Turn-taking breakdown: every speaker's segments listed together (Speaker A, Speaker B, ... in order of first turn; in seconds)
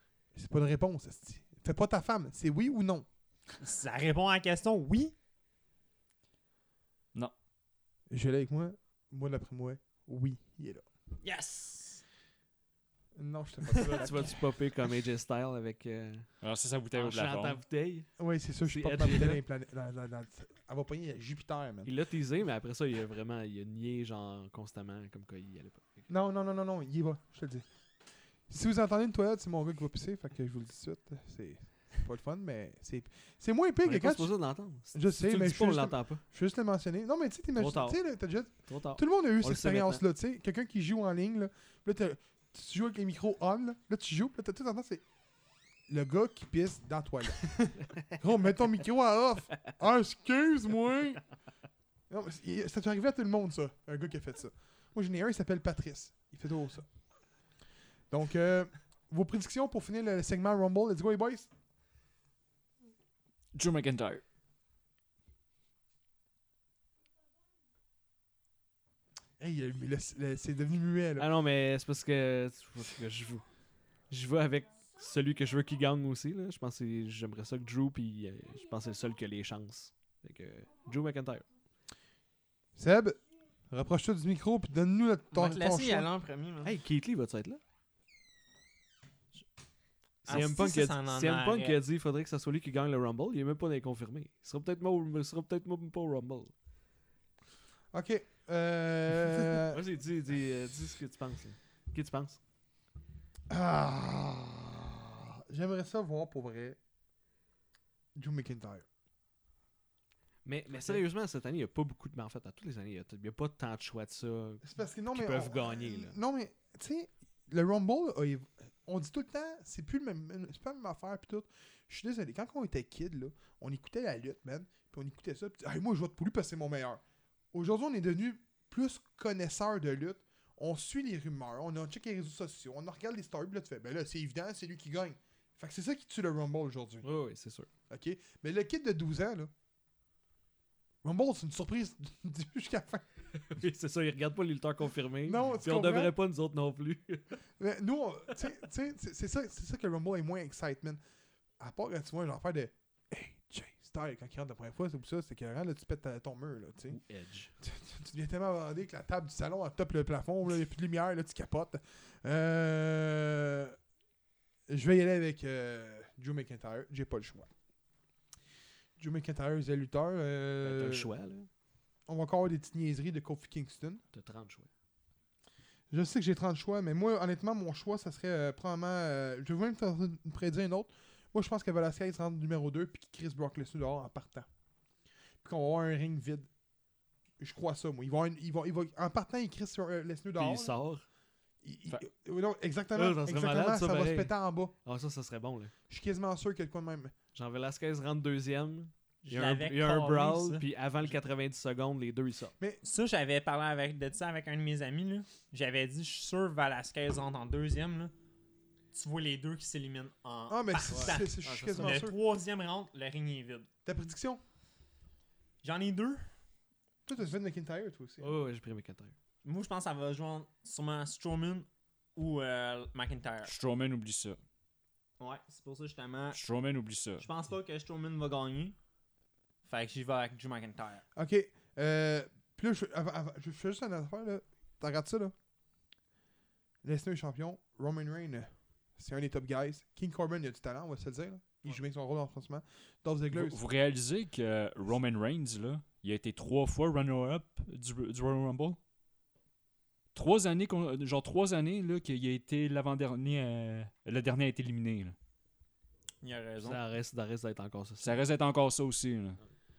Speaker A: 0.3-3.0, 8.1-10.8, 13.1-14.6, 18.2-21.9, 26.1-27.6, 28.5-45.0, 45.9-51.2, 52.1-56.9, 58.1-61.5, 69.4-71.3, 82.8-83.2, 83.7-86.1, 97.9-99.8, 103.5-106.8, 108.1-108.8, 114.6-137.1, 137.9-139.5, 141.0-143.0, 145.2-146.1, 147.6-151.0, 151.6-157.0, 157.6-163.8, 164.7-167.5, 169.0-171.1, 172.1-174.0, 175.9-184.4, 185.4-186.5, 187.4-190.8, 191.6-194.7, 195.9-197.1, 210.5-212.2, 213.8-214.4, 217.1-218.3, 231.1-235.3, 236.8-243.6
Speaker B: 3.6-5.1, 11.2-12.0, 13.7-14.2, 85.3-86.7, 90.2-91.8, 199.2-200.6, 202.8-208.1, 208.9-213.7, 215.6-216.3, 219.4-223.5, 225.2-226.4, 227.2-228.8, 229.6-231.0, 256.2-256.8
Speaker C: 13.8-16.4, 16.9-18.1, 18.6-19.4, 21.8-26.1, 33.8-36.2, 37.6-40.0, 71.2-73.4, 74.1-81.4, 86.6-87.6, 90.2-96.5, 99.7-102.4, 110.4-116.1, 137.0-137.7, 143.4-147.4, 156.9-157.5, 170.6-171.5, 174.1-174.7, 190.4-191.0, 192.9-194.3, 194.8-195.7, 197.3-202.5, 210.9-212.1, 218.2-219.1, 256.6-258.2
Speaker D: 16.4-17.6, 63.5-64.2, 223.4-224.4, 226.3-227.3, 243.3-248.8, 250.1-255.2, 258.0-259.4